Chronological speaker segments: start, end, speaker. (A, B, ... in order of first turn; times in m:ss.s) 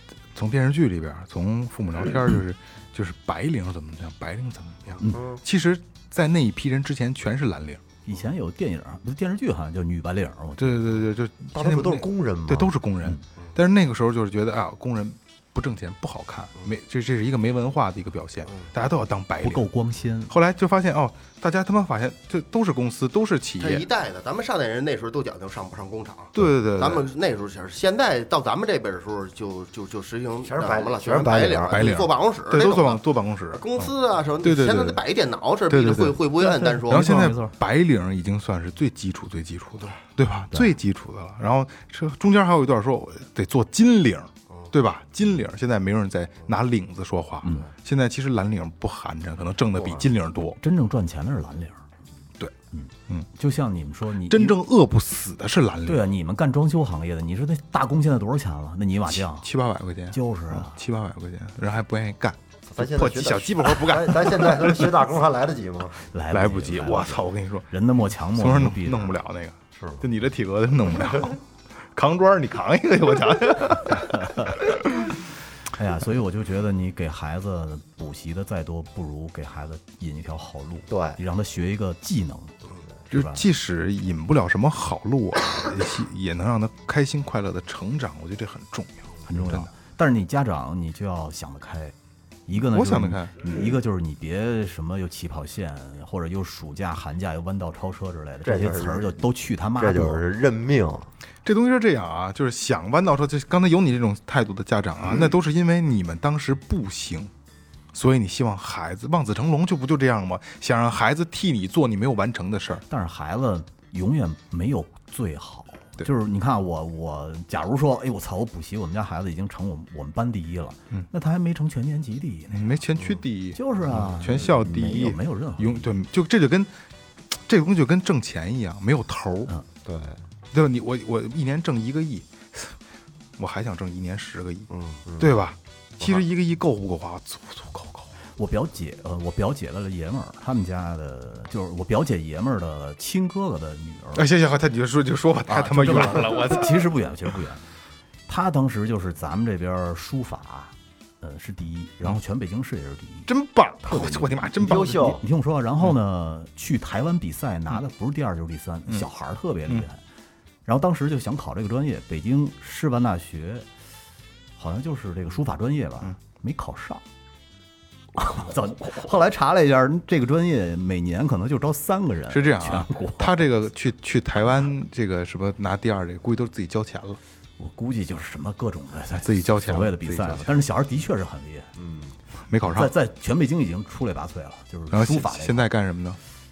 0:00.3-0:07.8 A
0:05.1-0:05.4 B
0:08.0-0:10.8 C
0:10.6-0:19.7 A
0:11.5-0:12.7 B
0:19.4-0:20.4 C
0:20.3-0:23.9 A
0:23.6-0:37.3 D
0:26.4-0:27.1 A
0:30.4-0:31.9 B
0:31.7-0:33.8 A
0:34.4-0:35.0 A
0:35.7-0:36.2 A
0:36.4-0:37.6 C
0:36.9-0:50.6 A
0:49.8-0:50.1 B
0:50.6-0:51.8 C
0:52.7-0:54.6 C
0:54.2-0:56.0 A
0:55.9-0:59.5 C
0:59.1-1:04.9 A
1:00.1-1:00.8 C
1:02.7-1:06.0 B
1:06.1-1:09.2 C
1:06.3-1:07.7 A
1:08.4-1:11.4 A
1:09.7-1:10.0 B
1:11.9-1:15.1 A
1:14.1-1:14.5 C
1:15.7-1:22.6 C
1:20.9-1:21.2 B
1:23.1-1:23.4 C
1:23.1-1:29.7 A
1:29.3-1:32.0 C
1:32.5-1:40.2 C
1:32.7-1:33.3 A
1:38.4-1:39.2 B
1:39.8-1:41.1 B
1:41.4-1:47.3 A
1:47.9-1:52.8 A
1:52.9-2:02.7 C
2:02.5-2:06.7 A
2:03.6-2:05.9 C
2:07.3-2:09.5 A
2:09.8-2:10.2 B
2:10.5-2:12.8 A
2:13.4-2:18.1 A
2:14.7-2:15.0 D
2:15.1-2:15.4 B
2:18.4-2:24.3 C
2:24.2-2:26.9 A
2:25.5-2:27.6 C
2:28.3-2:33.3 C
2:33.3-2:35.1 A
2:33.8-2:40.0 C
2:34.6-2:35.2 B
2:40.7-2:43.7 C
2:44.6-2:47.0 C
2:48.2-2:53.4 C
2:52.3-2:57.2 A
2:57.6-3:01.7 C
2:59.2-3:00.5 A
3:01.8-3:02.2 B
3:02.5-3:02.9 A
3:02.6-3:05.7 C
3:04.9-3:06.2 A